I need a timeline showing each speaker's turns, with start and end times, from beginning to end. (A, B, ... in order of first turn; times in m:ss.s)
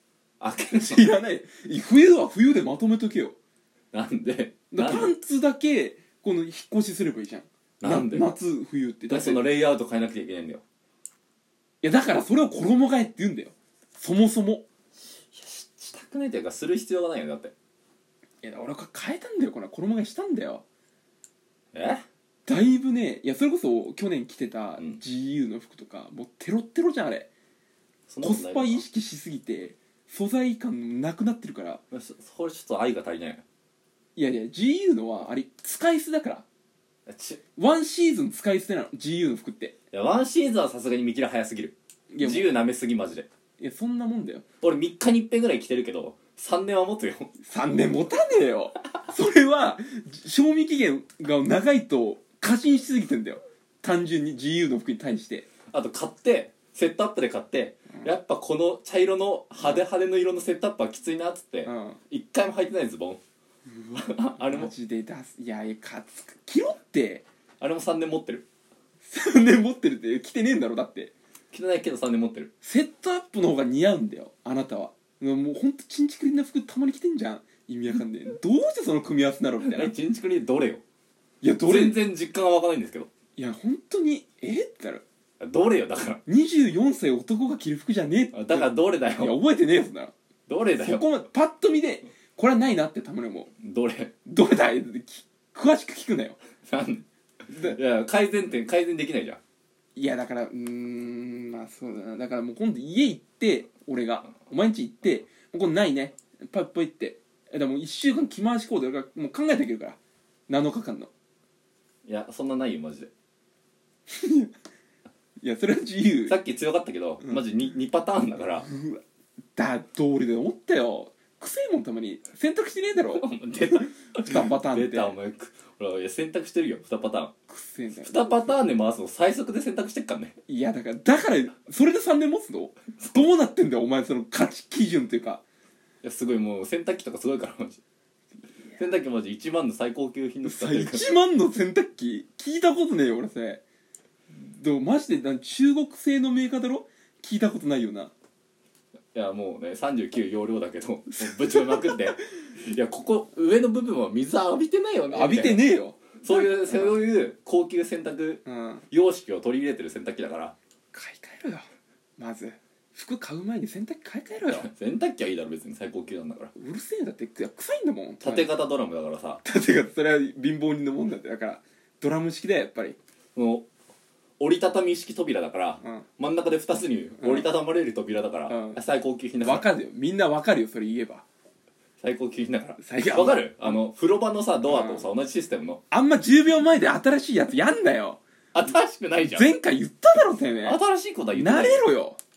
0:00.4-0:01.1 A
0:00.8-0:03.4 B
0:03.9-0:05.1 A
0:04.7-0:09.4 B
0:07.8-0:08.3 A
0:09.1-0:10.6 A
0:11.8-0:14.6 B
0:15.3-0:17.5 A
0:18.4-0:20.6 B
0:21.7-0:22.0 A
0:22.5-0:27.3 B
0:28.1-0:28.8 A
0:28.2-0:31.8 B
0:31.9-0:33.4 A
0:34.2-0:36.4 B
0:37.1-0:37.4 A
0:37.6-0:39.7 B
0:39.9-0:43.3 A
0:42.1-0:42.5 B
0:43.6-0:44.4 B
0:44.6-0:47.3 A
0:47.4-0:55.5 B
0:55.7-1:03.2 A
1:01.6-1:02.0 B
1:03.8-1:07.2 B
1:03.9-1:04.7 A
1:07.6-1:08.4 A
1:09.0-1:11.1 B
1:11.5-1:12.5 A
1:12.6-1:19.9 B
1:19.6-1:20.8 A
1:21.4-1:22.0 B
1:21.6-1:23.1 A
1:23.4-1:25.0 B
1:25.4-1:26.2 A
1:26.2-1:30.1 B
1:28.3-1:29.4 A
1:30.5-1:31.1 A
1:30.8-1:33.5 B
1:33.6-1:34.1 A
1:34.2-1:36.4 B
1:36.6-1:39.4 A
1:40.0-1:50.0 B
1:50.5-1:51.1 B
1:52.0-1:53.1 A
1:54.1-1:54.5 B
1:55.4-1:56.4 B
1:56.3-1:58.7 A
1:58.6-1:59.0 B
1:59.6-2:05.1 B
2:03.1-2:07.3 A
2:07.5-2:08.5 B
2:08.0-2:10.4 A
2:10.5-2:15.4 B
2:13.0-2:13.3 A
2:16.0-2:17.8 A
2:18.8-2:21.1 A
2:20.4-2:23.6 B
2:24.3-2:28.1 B
2:29.1-2:35.6 A
2:31.1-2:32.0 B
2:35.1-2:37.0 B
2:36.2-2:40.5 A
2:38.4-2:38.8 B
2:40.9-2:41.7 B
2:42.2-2:44.7 B
2:44.5-2:46.5 A
2:46.6-2:48.5 B
2:48.2-2:49.4 A
2:49.4-2:53.0 B
2:53.3-2:53.6 A
2:54.4-2:59.6 A
2:57.2-2:57.5 B
2:58.5-2:58.8 B
2:59.4-3:01.2 B
3:02.0-3:05.8 A
3:02.8-3:03.8 B
3:04.6-3:05.1 B
3:05.9-3:08.2 B
3:08.5-3:09.5 A
3:09.3-3:10.8 B
3:10.6-3:11.9 A
3:11.3-3:12.2 B